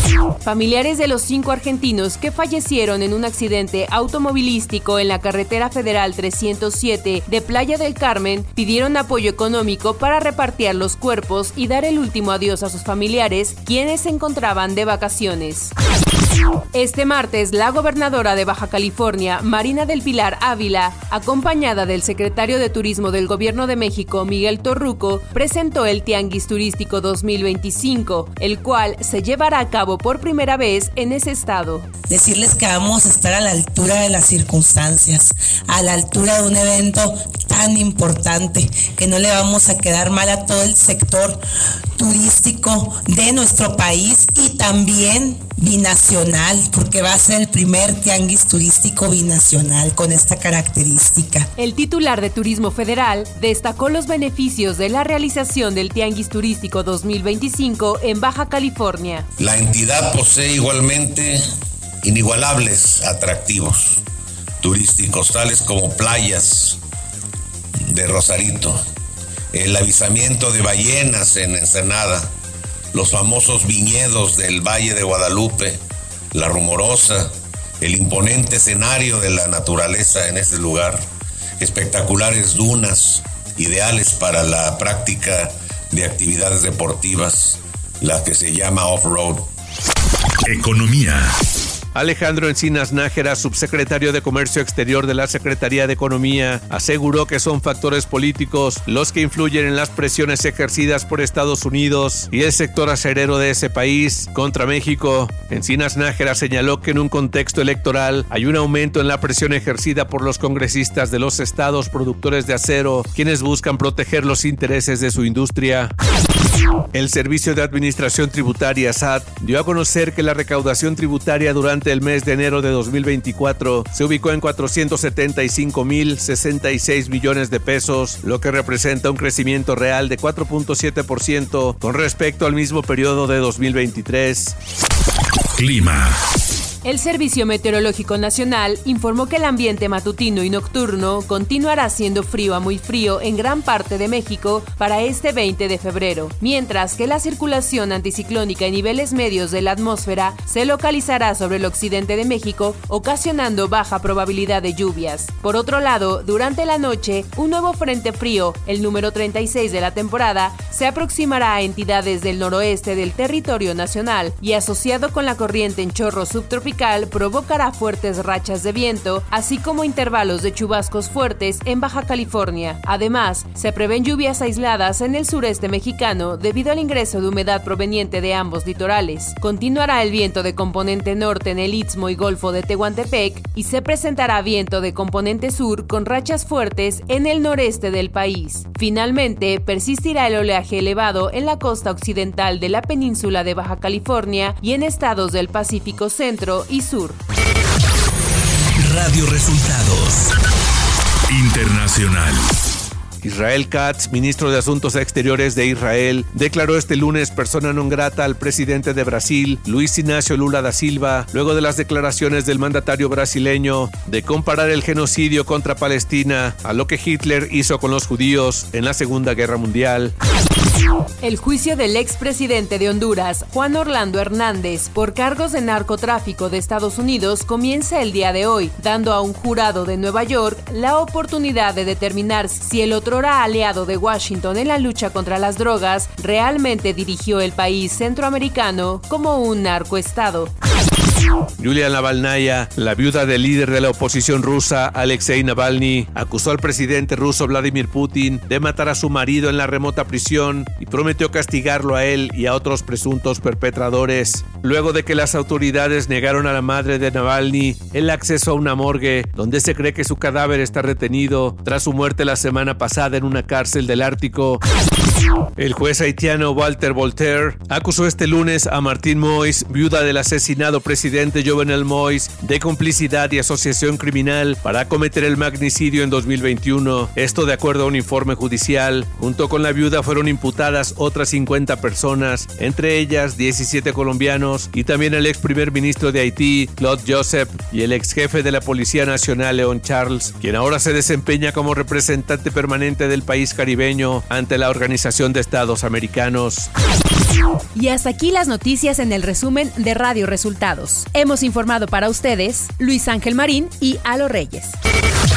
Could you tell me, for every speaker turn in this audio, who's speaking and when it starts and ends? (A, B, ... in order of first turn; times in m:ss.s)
0:00.4-0:15.7 A
0:16.7-0:31.9 A
0:32.1-0:41.4 B
0:42.0-0:51.5 B
0:51.6-0:59.3 A
0:59.4-1:01.4 C
1:02.0-1:04.0 C
1:04.6-1:06.8 C
1:07.9-1:08.8 C
1:09.5-1:12.3 C
1:12.9-1:15.8 C
1:16.3-1:21.0 C
1:21.6-1:29.5 C
1:30.4-1:31.3 D
1:32.0-1:55.9 E
1:56.9-2:14.6 E
2:15.6-2:16.2 D
2:16.8-3:17.2 A
3:18.8-3:20.3 E
3:21.3-3:22.5 D
3:23.2-3:40.1 E
3:41.2-4:00.5 A
4:01.6-4:24.6 E
4:25.6-4:56.7 E
4:57.8-5:04.8 A